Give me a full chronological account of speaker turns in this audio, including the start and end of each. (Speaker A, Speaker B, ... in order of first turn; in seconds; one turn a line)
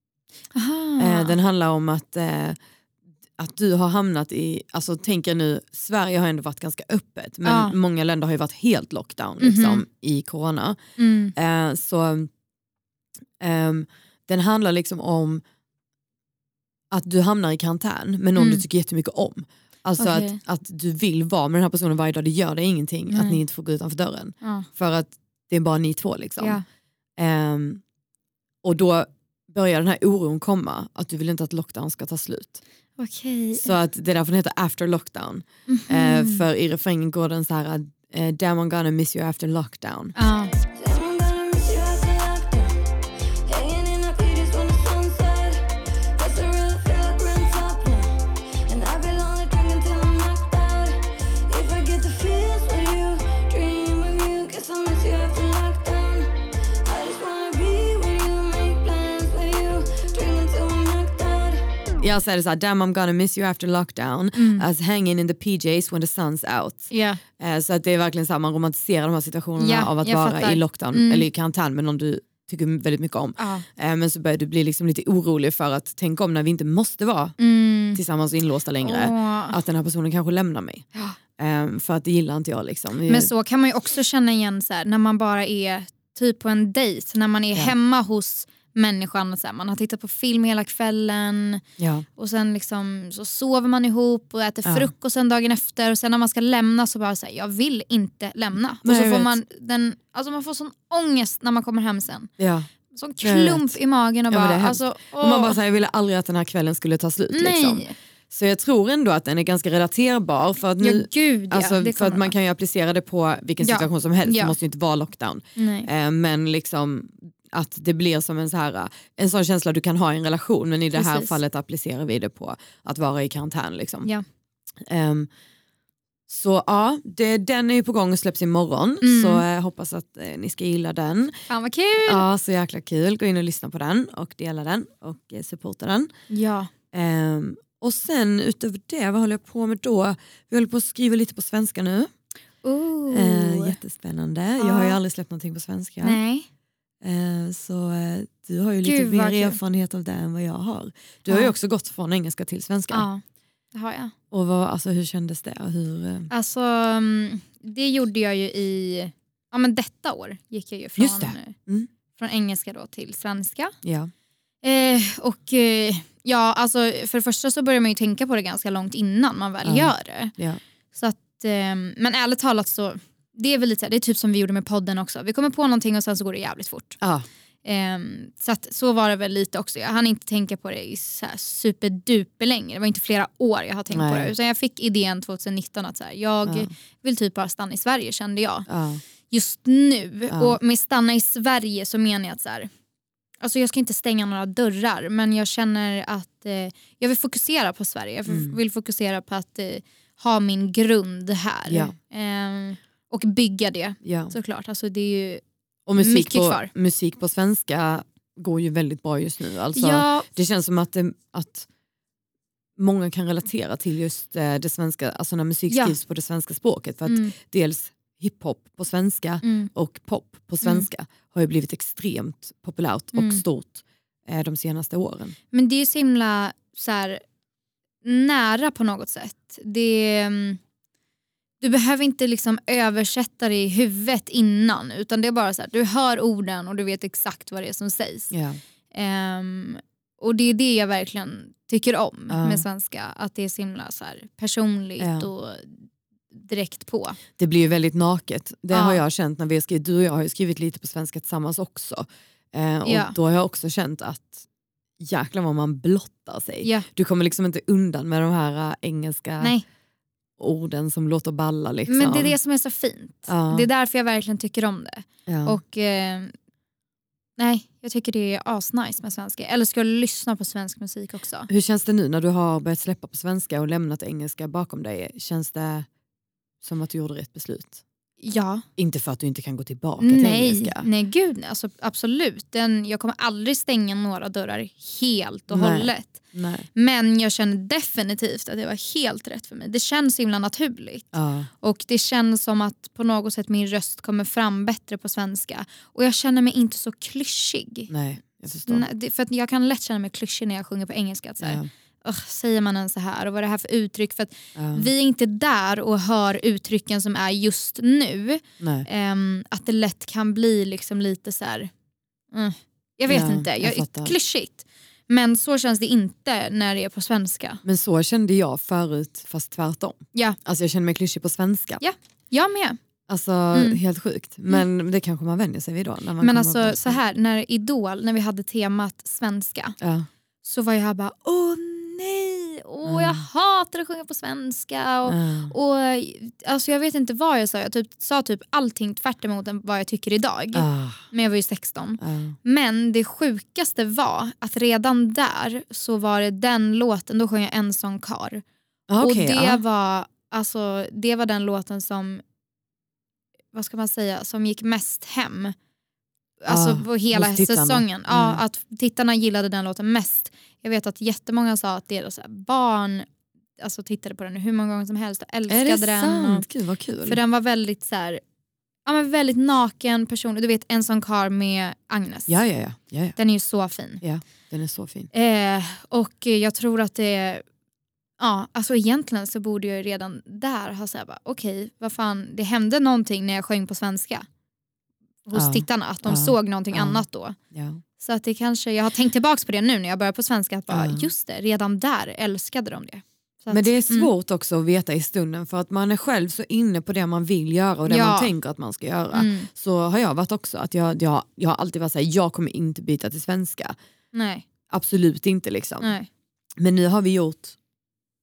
Speaker A: 0.6-1.4
Speaker B: 1.0-2.6
Speaker B: 3.4-10.8
Speaker A: 7.5-7.8
Speaker A: 9.4-9.8
Speaker A: 11.0-11.3
Speaker B: 11.3-12.3
Speaker B: 13.4-15.4
Speaker B: 16.9-26.6
Speaker A: 18.4-18.6
Speaker A: 20.0-20.4
Speaker A: 23.1-23.4
Speaker A: 26.4-26.6
Speaker B: 27.2-27.8
Speaker B: 28.6-32.6
Speaker A: 33.0-33.7
Speaker B: 33.6-40.2
Speaker A: 35.7-36.5
Speaker A: 40.2-40.5
Speaker C: 40.7-42.8
Speaker C: 43.5-61.8
Speaker B: 62.0-77.4
Speaker A: 64.4-64.7
Speaker A: 66.9-67.2
Speaker A: 69.6-71.2
Speaker A: 73.4-73.7
Speaker A: 77.4-78.0
Speaker B: 78.0-83.3
Speaker A: 78.8-79.6
Speaker A: 83.1-91.6
Speaker B: 91.8-92.1
Speaker A: 92.2-102.3
Speaker B: 94.7-94.9
Speaker B: 98.8-99.3
Speaker B: 102.4-102.7
Speaker A: 102.9-105.6
Speaker B: 103.2-103.8
Speaker B: 104.3-124.1
Speaker A: 107.3-107.9
Speaker A: 110.8-112.3
Speaker A: 113.6-114.5
Speaker A: 115.6-115.9
Speaker A: 120.9-121.4
Speaker B: 124.8-125.3
Speaker B: 126.3-131.3
Speaker A: 129.0-129.4
Speaker A: 131.5-132.2
Speaker B: 132.0-136.1
Speaker A: 136.3-136.7
Speaker B: 136.9-142.1
Speaker A: 142.6-143.8
Speaker B: 143.1-146.2
Speaker A: 144.6-145.0
Speaker A: 146.0-146.5
Speaker B: 147.0-153.1
Speaker A: 148.8-149.6
Speaker A: 151.3-151.5
Speaker A: 152.9-153.2
Speaker A: 153.7-154.1
Speaker B: 154.3-156.3
Speaker A: 156.3-161.6
Speaker B: 161.0-161.9
Speaker A: 162.2-163.7
Speaker B: 163.8-164.1
Speaker A: 164.6-170.3
Speaker B: 169.7-170.6
Speaker A: 170.9-177.0
Speaker B: 177.0-177.3
Speaker A: 177.7-188.7
Speaker B: 183.9-184.3
Speaker B: 186.4-186.7
Speaker B: 188.7-189.0
Speaker A: 189.3-192.7
Speaker B: 190.3-190.6
Speaker A: 193.4-205.4
Speaker B: 198.3-198.6
Speaker B: 201.7-201.9
Speaker B: 204.0-204.3
Speaker B: 205.9-211.7
Speaker A: 206.0-206.7
Speaker A: 209.8-210.3
Speaker B: 212.8-225.4
Speaker A: 215.7-216.0
Speaker A: 217.1-217.3
Speaker A: 219.4-219.7
Speaker A: 220.6-220.9
Speaker A: 223.1-223.4
Speaker A: 225.5-227.2
Speaker A: 228.0-230.6
Speaker A: 231.6-238.3
Speaker B: 238.3-238.6
Speaker A: 238.9-247.2
Speaker B: 242.3-242.7
Speaker B: 245.0-245.3
Speaker B: 247.4-254.4
Speaker A: 248.7-249.0
Speaker A: 252.8-253.2
Speaker B: 255.0-259.6
Speaker B: 260.4-262.4
Speaker A: 261.9-266.3
Speaker B: 263.3-263.7
Speaker B: 265.3-265.6
Speaker A: 267.4-271.5
Speaker B: 271.5-275.9
Speaker B: 276.6-277.8
Speaker A: 278.2-278.6
Speaker B: 278.8-280.9
Speaker A: 280.0-286.2
Speaker B: 285.5-286.7
Speaker A: 286.8-297.9
Speaker B: 291.1-291.5
Speaker B: 297.9-298.9
Speaker A: 298.6-311.7
Speaker B: 301.4-301.7
Speaker B: 304.6-304.9
Speaker B: 308.6-308.9
Speaker A: 312.3-317.6
Speaker B: 313.1-314.1
Speaker B: 317.6-321.8
Speaker A: 321.8-322.8
Speaker B: 323.1-327.0
Speaker A: 323.5-323.8
Speaker A: 326.2-329.8
Speaker B: 329.8-330.1
Speaker A: 330.4-348.4
Speaker B: 332.9-333.2
Speaker B: 335.1-335.5
Speaker B: 340.5-341.0
Speaker B: 342.0-342.4
Speaker B: 348.9-349.6
Speaker A: 349.0-352.2
Speaker A: 353.5-355.6
Speaker A: 356.4-363.1
Speaker B: 356.5-358.4
Speaker A: 363.6-366.5
Speaker B: 365.5-367.2
Speaker A: 367.1-368.2
Speaker A: 368.9-372.4
Speaker B: 372.3-373.2
Speaker A: 373.2-374.0
Speaker B: 374.0-375.1
Speaker A: 375.1-377.4
Speaker A: 378.2-384.3
Speaker A: 385.3-387.4
Speaker B: 385.3-387.0
Speaker B: 387.5-387.8
Speaker A: 388.0-394.1
Speaker B: 390.7-391.1
Speaker B: 393.5-403.8
Speaker A: 397.9-398.3
Speaker A: 399.1-399.5
Speaker A: 404.1-404.5
Speaker B: 404.7-405.9
Speaker A: 405.8-406.1
Speaker B: 406.6-407.6